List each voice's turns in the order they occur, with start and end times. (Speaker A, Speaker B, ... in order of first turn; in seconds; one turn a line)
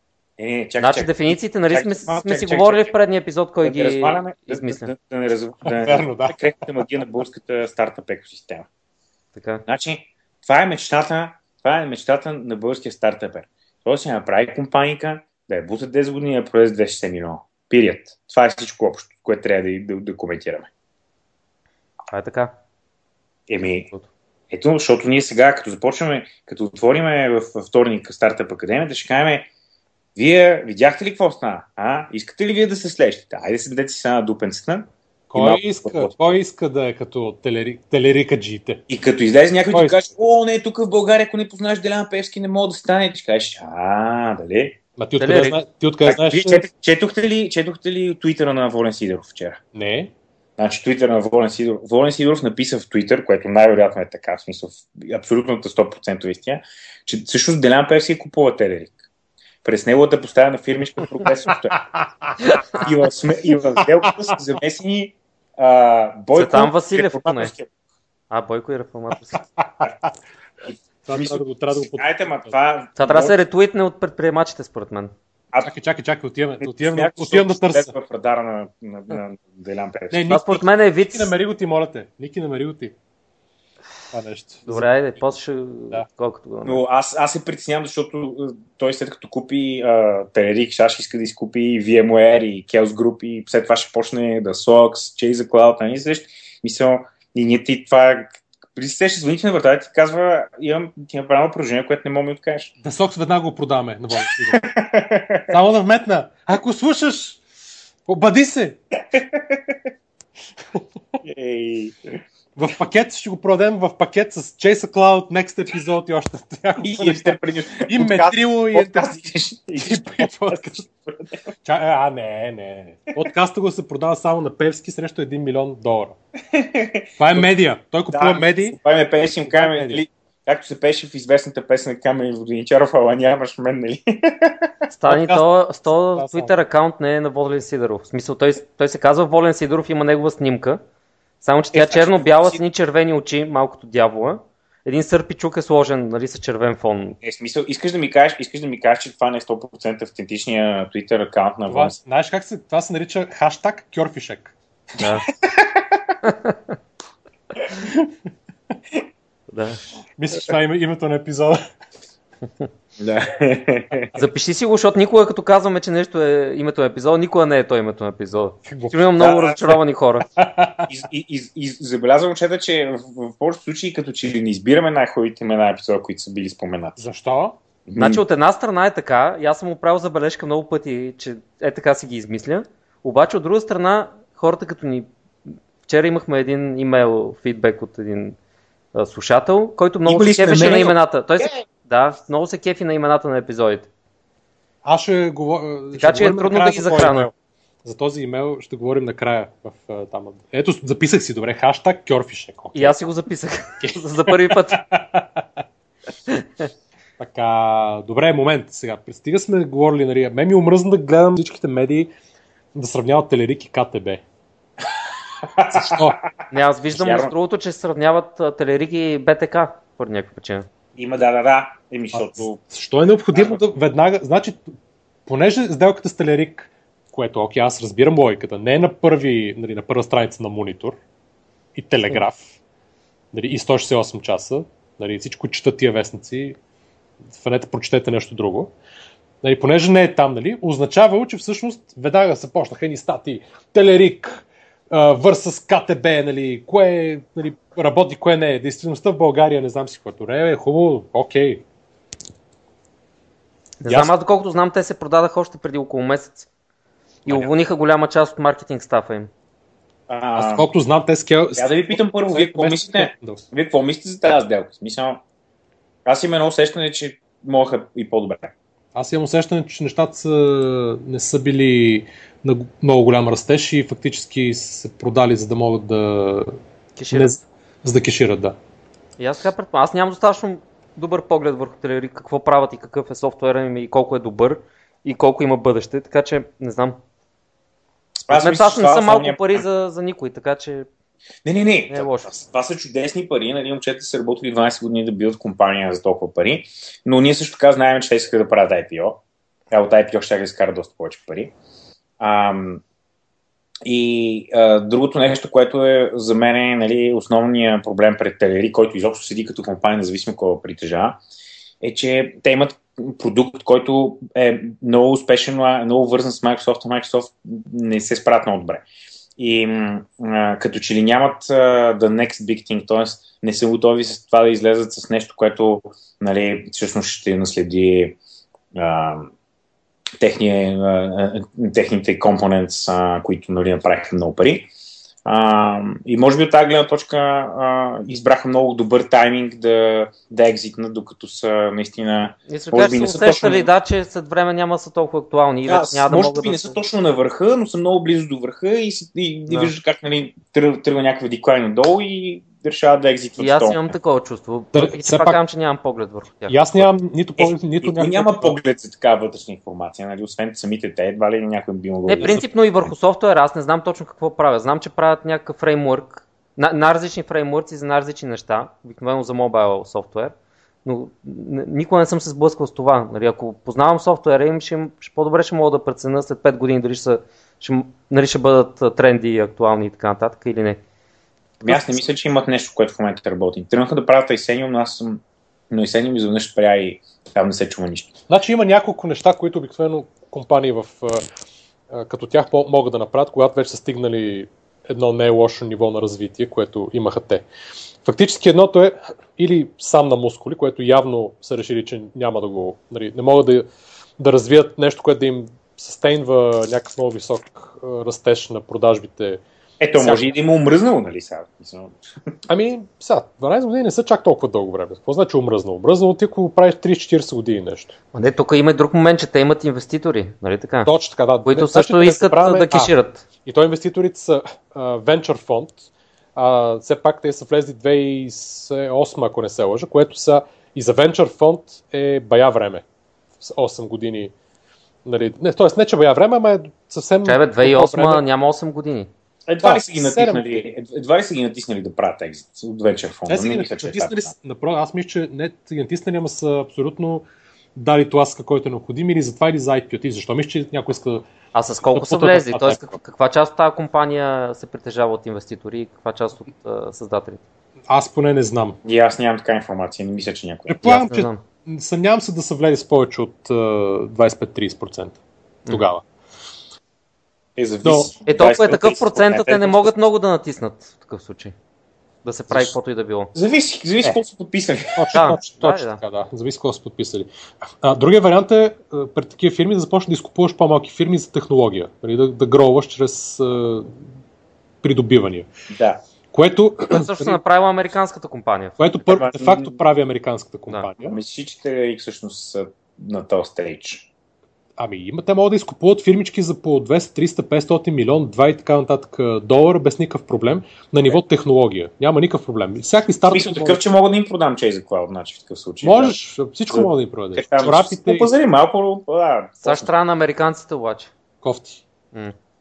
Speaker A: 0.4-2.9
Speaker B: 0.8-4.9
Speaker A: 3.6-8.7
Speaker C: 5.6-6.4
Speaker B: 9.3-9.6
Speaker A: 9.7-20.7
Speaker B: 22.1-22.5
Speaker A: 23.5-23.9
Speaker A: 24.5-29.5
Speaker A: 30.1-36.1
Speaker C: 35.3-38.8
Speaker A: 38.9-44.8
Speaker C: 39.7-40.0
Speaker C: 45.0-46.6
Speaker B: 45.2-45.6
Speaker A: 46.0-49.6
Speaker C: 49.7-50.1
Speaker A: 50.6-59.0
Speaker A: 59.6-61.8
Speaker B: 62.4-62.8
Speaker A: 62.7-67.7
Speaker C: 63.8-64.1
Speaker B: 66.3-67.5
Speaker B: 68.3-69.4
Speaker C: 69.6-70.0
Speaker A: 70.6-73.4
Speaker C: 71.0-72.5
Speaker B: 73.0-75.1
Speaker C: 75.6-77.9
Speaker A: 76.6-80.3
Speaker C: 80.1-82.9
Speaker B: 80.3-81.3
Speaker C: 84.1-84.9
Speaker B: 84.7-86.8
Speaker A: 86.6-102.7
Speaker C: 102.8-104.7
Speaker A: 104.4-105.5
Speaker C: 105.5-107.4
Speaker C: 108.0-108.8
Speaker A: 109.1-109.8
Speaker A: 111.2-112.2
Speaker C: 112.5-119.1
Speaker A: 116.8-121.3
Speaker C: 119.8-120.8
Speaker C: 121.6-126.2
Speaker A: 126.5-127.5
Speaker C: 127.2-128.8
Speaker A: 128.1-134.7
Speaker C: 129.4-130.0
Speaker B: 134.9-140.8
Speaker C: 135.0-135.5
Speaker C: 136.1-136.5
Speaker B: 141.4-147.2
Speaker A: 141.7-142.6
Speaker A: 147.2-152.0
Speaker C: 151.7-154.6
Speaker B: 155.0-155.2
Speaker A: 155.0-156.2
Speaker B: 156.2-156.6
Speaker C: 157.7-158.1
Speaker B: 159.5-159.8
Speaker C: 160.2-161.6
Speaker A: 163.0-164.1
Speaker B: 164.2-170.2
Speaker C: 168.7-169.1
Speaker A: 169.2-169.8
Speaker C: 170.3-170.9
Speaker A: 170.9-177.0
Speaker C: 177.0-177.6
Speaker A: 177.9-178.2
Speaker B: 177.9-185.1
Speaker B: 185.8-188.4
Speaker B: 188.9-193.9
Speaker A: 190.0-191.5
Speaker C: 194.8-197.3
Speaker B: 195.9-197.3
Speaker C: 197.8-202.9
Speaker B: 202.7-204.8
Speaker C: 203.8-205.4
Speaker B: 206.3-206.7
Speaker C: 207.2-212.1
Speaker C: 212.7-214.2
Speaker A: 214.9-217.3
Speaker C: 215.7-216.2
Speaker B: 216.5-220.7
Speaker A: 220.9-222.6
Speaker C: 222.1-224.7
Speaker A: 223.3-223.6
Speaker C: 225.2-231.0
Speaker C: 231.8-232.5
Speaker C: 233.3-236.6
Speaker C: 237.3-238.7
Speaker C: 239.4-251.6
Speaker B: 253.8-256.5
Speaker C: 253.8-254.1
Speaker B: 257.2-259.3
Speaker A: 260.1-260.7
Speaker C: 260.3-263.4
Speaker A: 261.6-265.2
Speaker A: 266.0-268.5
Speaker C: 268.9-276.6
Speaker B: 277.0-277.4
Speaker C: 277.1-278.6
Speaker B: 279.2-287.0
Speaker A: 288.2-289.6
Speaker B: 288.3-290.9
Speaker A: 291.4-301.5
Speaker B: 291.9-292.4
Speaker A: 302.2-302.8
Speaker A: 303.8-311.2
Speaker A: 311.8-318.9
Speaker A: 319.4-328.2
Speaker A: 328.7-329.3
Speaker A: 330.2-334.7
Speaker A: 335.2-343.7
Speaker B: 342.5-346.8
Speaker A: 345.6-353.9
Speaker B: 353.4-356.9
Speaker C: 354.7-355.4
Speaker C: 356.5-358.6
Speaker A: 357.4-362.4
Speaker B: 362.1-370.3
Speaker B: 370.8-380.8
Speaker A: 381.6-388.2
Speaker C: 388.3-391.2
Speaker C: 391.9-397.4
Speaker C: 398.0-403.7
Speaker C: 404.2-409.4
Speaker A: 409.8-412.0
Speaker C: 412.5-418.0
Speaker B: 418.1-420.9
Speaker C: 420.8-432.8
Speaker B: 421.4-423.2
Speaker C: 433.4-434.3
Speaker C: 435.0-438.2
Speaker B: 437.2-439.1
Speaker A: 439.5-444.3
Speaker C: 439.6-440.6
Speaker C: 443.3-451.2
Speaker B: 451.5-457.4
Speaker C: 451.9-452.9
Speaker C: 457.9-458.8
Speaker A: 458.8-460.8
Speaker C: 460.7-465.2
Speaker B: 460.8-461.4
Speaker C: 465.7-466.0
Speaker A: 467.6-470.0
Speaker C: 467.8-468.1
Speaker B: 468.2-471.5
Speaker B: 472.2-473.3
Speaker A: 473.3-475.3
Speaker C: 474.9-477.3
Speaker B: 475.1-476.0
Speaker C: 477.8-483.9
Speaker C: 484.8-485.5
Speaker A: 485.7-486.0
Speaker C: 486.3-487.4
Speaker B: 486.9-488.8
Speaker C: 488.8-491.2
Speaker A: 489.1-489.8
Speaker A: 491.0-494.1
Speaker C: 494.8-503.8
Speaker A: 503.3-506.1
Speaker C: 505.8-508.3
Speaker A: 506.7-509.9
Speaker B: 509.6-511.1
Speaker C: 511.4-511.8